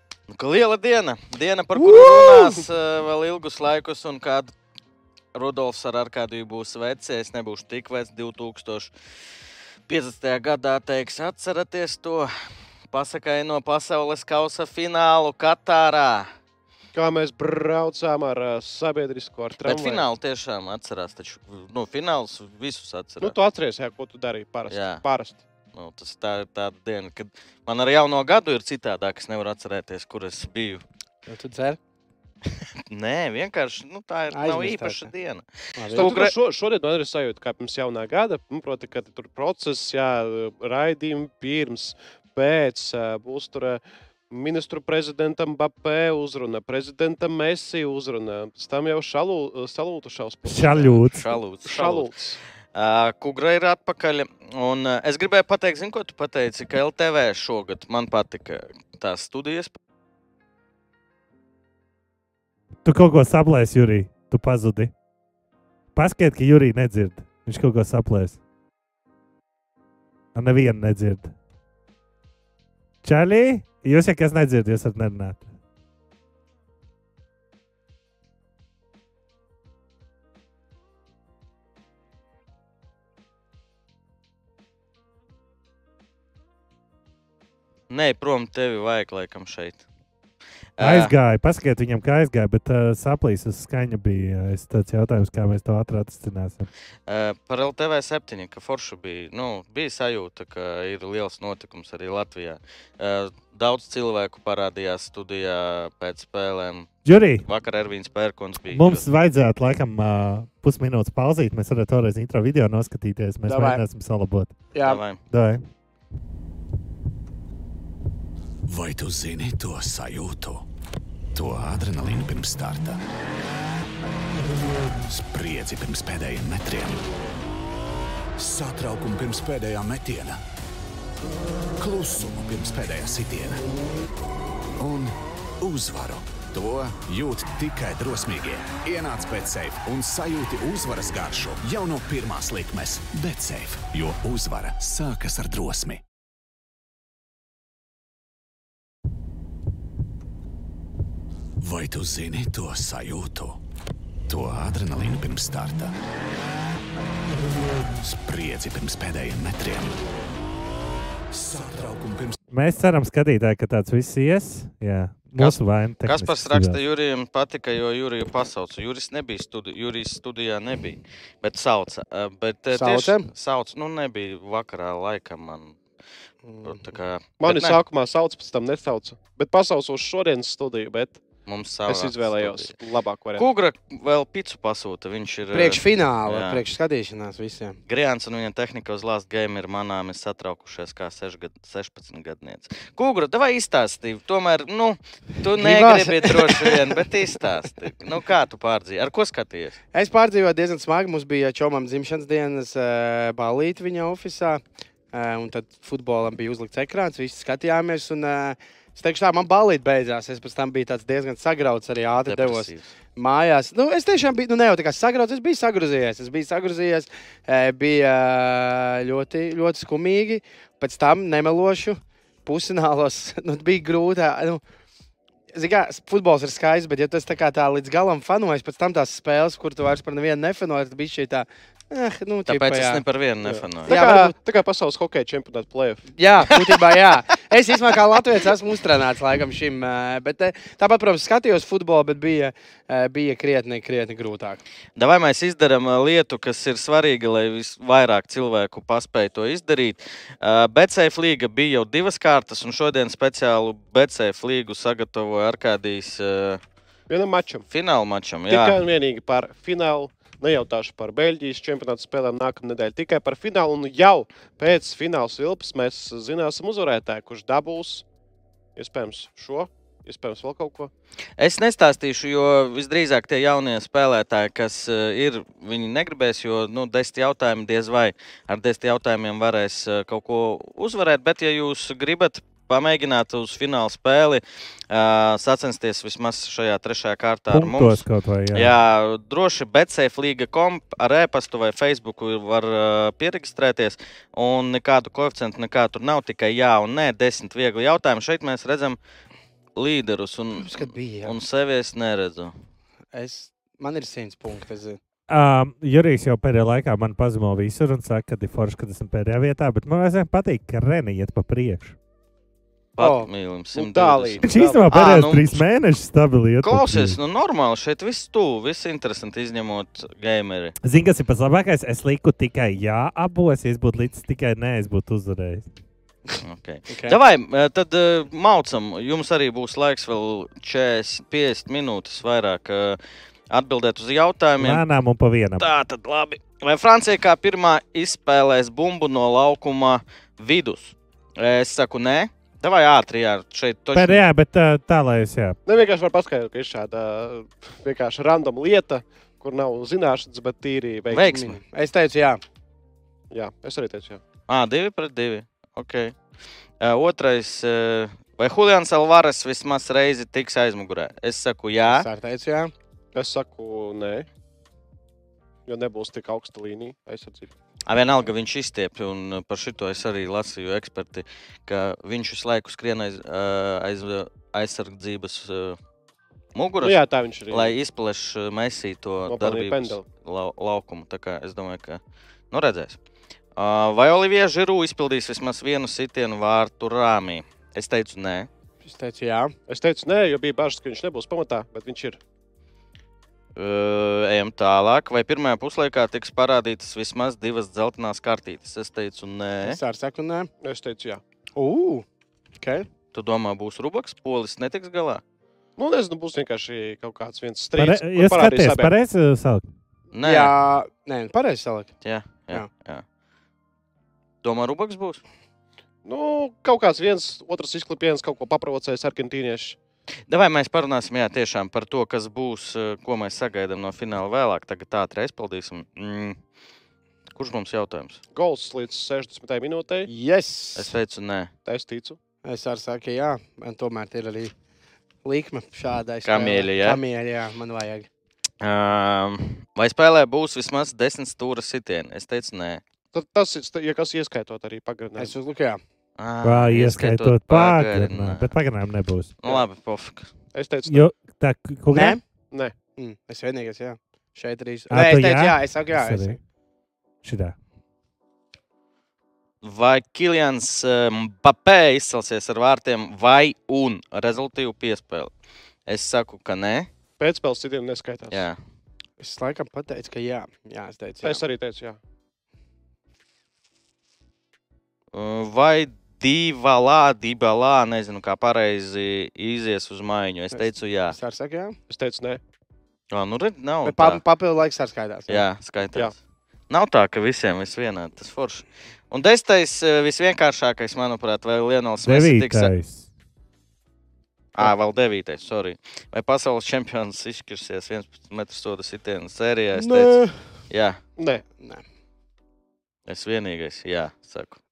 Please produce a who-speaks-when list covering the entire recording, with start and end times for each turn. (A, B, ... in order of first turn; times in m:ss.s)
0:00.3-0:04.5 A
0:05.3-0:08.9 A
0:09.9-0:12.3 A
0:12.9-0:16.3 A
0:16.9-0:20.0 B
0:19.6-0:23.4 A
0:23.2-0:25.4 B
0:24.7-0:25.0 A
0:25.7-0:30.8 A
0:31.3-0:31.8 C
0:32.9-0:36.3 A
0:34.3-0:35.1 C
0:35.8-0:36.1 C
0:35.9-0:51.1 B
0:50.4-0:51.2 D
0:51.0-0:52.1 A
0:51.6-0:52.4 B
0:52.7-0:59.8 A
1:02.8-1:04.9 D
1:06.0-1:08.4 D
1:10.4-1:11.3 D
1:13.0-1:15.4 D
1:27.9-1:29.8 A
1:30.8-1:31.1 A
1:30.8-1:36.7 D
1:37.1-1:49.1 A
1:47.0-1:47.5 D
1:48.7-1:54.6 D
1:53.5-1:53.8 C
1:54.7-1:55.0 C
1:54.8-1:55.2 A
1:55.2-1:55.6 D
1:58.6-2:00.7 E
2:01.4-2:03.0 E
2:05.0-2:07.0 E
2:08.4-2:10.4 E
2:11.8-2:13.7 E
2:14.8-2:26.0 E
2:31.6-2:33.6 E
2:34.3-2:36.0 E
2:38.0-2:40.0 E
2:41.3-2:42.4 E
2:42.5-2:46.8 D
2:45.4-2:55.8 A
2:52.7-2:53.3 C
2:56.4-2:56.8 C
2:56.6-2:57.8 A
2:57.4-3:01.2 B
3:01.5-3:02.8 A
3:01.9-3:03.5 B
3:03.4-3:06.6 A
3:05.5-3:07.8 C
3:07.9-3:19.8 A
3:15.6-3:17.0 C
3:19.9-3:44.6 C
3:32.2-3:32.9 A
3:45.5-3:53.0 C
3:52.5-3:54.0 A
3:53.4-3:56.1 B
3:53.9-3:54.4 C
3:56.2-4:04.6 C
3:56.6-3:57.0 A
4:05.0-4:16.6 A
4:17.1-4:17.7 B
4:17.7-4:18.8 A
4:18.5-4:28.0 B
4:28.8-4:30.9 B
4:31.4-4:59.0 A
4:47.5-4:48.7 D
4:59.8-5:02.5 A
5:00.6-5:01.4 C
5:03.1-5:05.0 C
5:05.3-5:12.0 D
5:13.0-5:15.6 A
5:13.0-5:13.3 C
5:13.7-5:14.9 B
5:14.4-5:17.2 D
5:16.6-5:20.8 A
5:20.8-5:25.6 D
5:26.4-5:33.0 A
5:26.9-5:27.2 C
5:33.5-5:34.8 A
5:34.6-5:35.7 D
5:35.6-5:44.2 A
5:43.9-5:45.6 D
5:45.7-5:51.4 B
5:51.1-5:51.6 A
5:51.3-5:52.4 C
5:53.3-5:54.2 B
5:54.5-5:56.2 A
5:56.8-6:02.1 A
6:01.9-6:02.7 C
6:03.1-6:04.3 B
6:05.7-6:07.5 B
6:07.9-6:15.8 A
6:16.6-6:23.0 A
6:16.8-6:17.8 B
6:19.3-6:20.0 B
6:23.6-6:28.5 A
6:28.8-6:29.5 C
6:29.7-6:32.2 B
6:33.6-6:39.8 A
6:39.6-6:40.5 C
6:40.6-6:41.2 B
6:41.6-6:42.0 C
6:42.6-6:42.9 C
6:43.1-6:45.2 A
6:45.8-6:48.9 B
6:47.8-6:49.6 D
6:50.1-6:50.6 A
6:50.2-6:51.9 C
6:52.0-6:53.0 A
6:54.4-6:55.2 A
6:56.0-6:59.8 B
7:00.3-7:06.4 A
7:07.4-7:08.2 A
7:08.3-7:10.1 B
7:10.1-7:11.0 C
7:10.8-7:11.5 A
7:11.6-7:12.2 B
7:12.4-7:14.5 C
7:15.2-7:18.1 C
7:16.2-7:17.0 A
7:18.6-7:22.8 A
7:23.1-7:25.4 B
7:25.2-7:25.8 C
7:26.2-7:28.5 A
7:26.4-7:29.4 D
7:29.4-7:30.3 A
7:30.5-7:31.1 B
7:30.9-7:32.2 D
7:31.9-7:32.2 C
7:33.0-7:36.4 C
7:34.9-7:36.4 D
7:37.2-7:37.6 D
7:39.6-7:45.3 A
7:45.9-7:46.9 A
7:47.2-7:48.4 B
7:48.3-7:48.6 A
7:49.2-7:51.4 C
7:51.2-7:52.0 B
7:55.1-8:01.2 A
8:00.6-8:01.8 C
8:01.9-8:02.4 B
8:03.1-8:04.2 A
8:03.8-8:05.4 C
8:05.3-8:06.2 A
8:06.7-8:12.7 A
8:12.0-8:13.1 D
8:14.5-8:21.0 A
8:19.7-8:20.4 C
8:21.2-8:21.4 B
8:21.6-8:21.8 C
8:23.1-8:24.6 A